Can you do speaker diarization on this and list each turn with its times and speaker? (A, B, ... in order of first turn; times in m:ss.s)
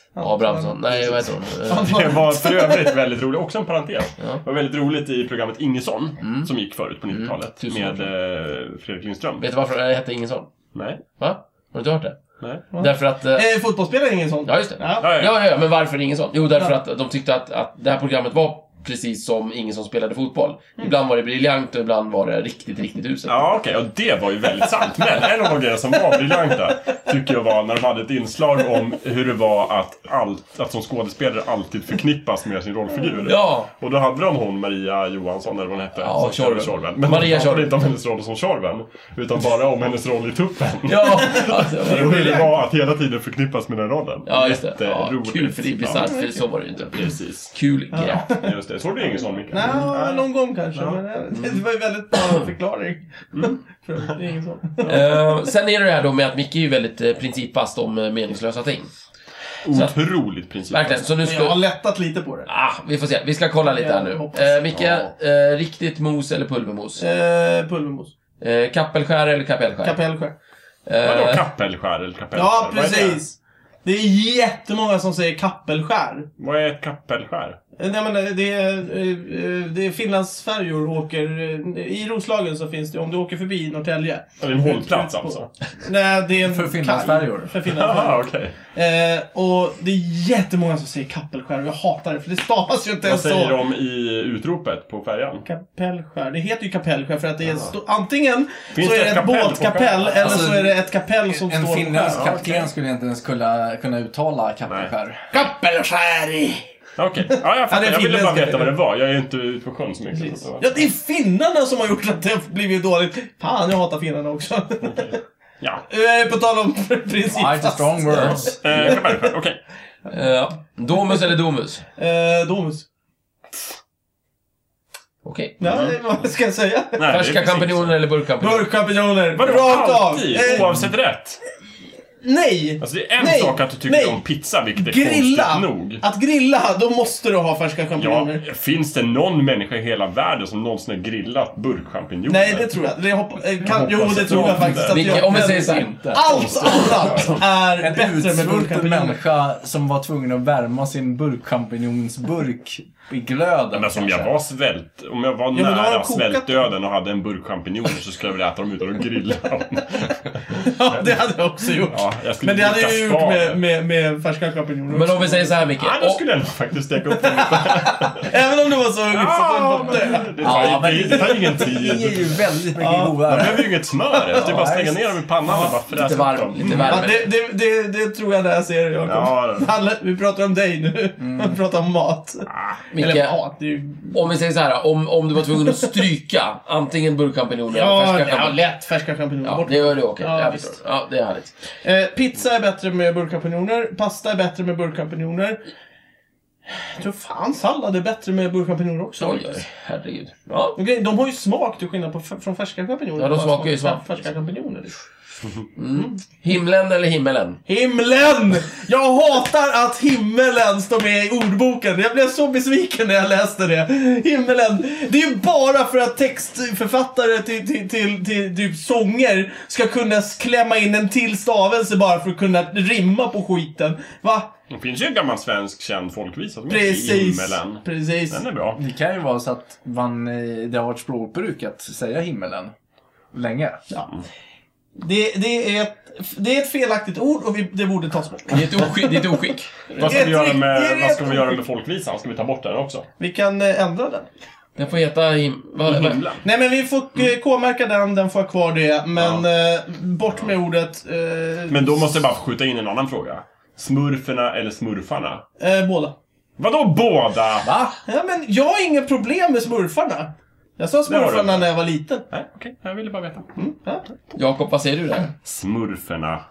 0:00.2-0:03.0 A
0:00.2-0:02.0 B
0:01.7-0:09.4 C
0:06.2-0:06.5 B
0:07.1-0:08.1 B
0:09.4-0:10.5 B
0:10.7-0:11.0 C
0:11.2-0:13.5 B
0:12.7-0:15.1 A
0:14.5-0:23.6 B
0:15.0-0:15.4 C
0:23.3-0:46.1 C
0:33.2-0:33.7 B
0:36.0-0:37.7 B
0:40.9-0:42.5 B
0:41.6-0:42.6 A
0:44.3-0:47.0 B
0:45.9-0:46.4 A
0:46.9-0:47.5 C
0:47.5-0:48.3 B
0:47.9-0:48.5 A
0:48.2-0:51.0 C
0:49.1-0:55.1 A
0:54.8-0:58.9 B
0:59.6-1:01.1 C
1:00.7-1:01.6 B
1:01.2-1:02.5 A
1:02.5-1:07.0 B
1:03.6-1:05.0 A
1:07.0-1:08.1 A
1:08.4-1:10.0 B
1:09.8-1:10.4 A
1:10.9-1:11.5 B
1:11.0-1:13.2 C
1:12.3-1:16.3 A
1:16.4-1:17.6 C
1:17.8-1:33.6 A
1:24.4-1:25.5 C
1:26.4-1:27.6 D
1:27.6-1:28.6 C
1:33.0-1:35.5 C
1:35.4-1:42.6 A
1:37.4-1:37.7 C
1:38.7-1:40.6 C
1:40.2-1:45.3 D
1:42.1-1:42.6 C
1:45.3-1:46.6 A
1:47.0-1:50.8 C
1:47.7-1:48.8 A
1:50.1-1:55.1 A
1:54.8-1:55.8 C
1:55.9-1:59.3 A
1:57.3-1:59.0 D
1:58.1-1:58.4 B
1:58.3-1:59.6 C
2:00.1-2:01.8 B
2:02.0-2:02.9 A
2:05.2-2:05.9 B
2:05.6-2:07.1 A
2:05.6-2:05.9 C
2:07.0-2:08.0 C
2:07.0-2:08.7 B
2:08.4-2:10.8 A
2:09.3-2:11.4 C
2:12.2-2:14.2 A
2:12.8-2:16.0 C
2:14.8-2:18.4 A
2:18.0-2:22.8 C
2:22.3-2:29.2 A
2:23.6-2:25.4 C
2:24.3-2:24.7 D
2:24.8-2:27.3 B
2:25.3-2:26.2 D
2:26.1-2:27.4 C
2:27.8-2:34.3 D
2:33.7-2:41.2 C
2:35.5-2:36.7 A
2:40.5-2:45.6 A
2:41.7-2:43.6 C
2:44.9-2:46.2 B
2:45.8-2:48.3 C
2:47.2-2:51.7 A
2:49.1-2:52.4 C
2:50.4-2:53.7 D
2:52.8-2:54.5 A
2:53.3-2:57.1 C
2:54.4-2:55.0 D
2:55.5-2:55.8 A
2:55.8-2:57.3 B
2:56.7-3:04.1 A
2:59.0-2:59.7 C
3:01.2-3:01.6 D
3:02.9-3:03.4 B
3:04.1-3:08.6 B
3:07.7-3:10.8 A
3:09.4-3:11.6 B
3:11.8-3:15.6 A
3:16.8-3:19.6 A
3:19.2-3:20.8 B
3:20.8-3:25.0 A
3:23.2-3:24.0 B
3:25.8-3:27.6 B
3:27.7-3:44.5 A
3:44.7-3:48.8 C
3:46.7-3:48.4 A
3:48.8-3:52.7 D
3:53.3-3:53.8 D
3:53.9-3:54.2 A
3:55.0-3:59.3 A
3:58.5-4:00.2 B
4:00.0-4:03.1 C
4:00.0-4:01.6 A
4:03.2-4:04.3 A
4:04.8-4:06.3 B
4:05.8-4:06.4 C
4:06.4-4:12.2 A
4:09.2-4:09.4 C
4:11.7-4:15.4 C
4:15.6-4:16.2 A
4:16.6-4:17.7 C
4:17.6-4:18.0 D
4:18.1-4:22.3 A
4:21.1-4:21.7 C
4:22.3-4:23.5 C
4:23.6-4:24.1 A
4:24.3-4:25.3 B
4:25.4-4:26.4 C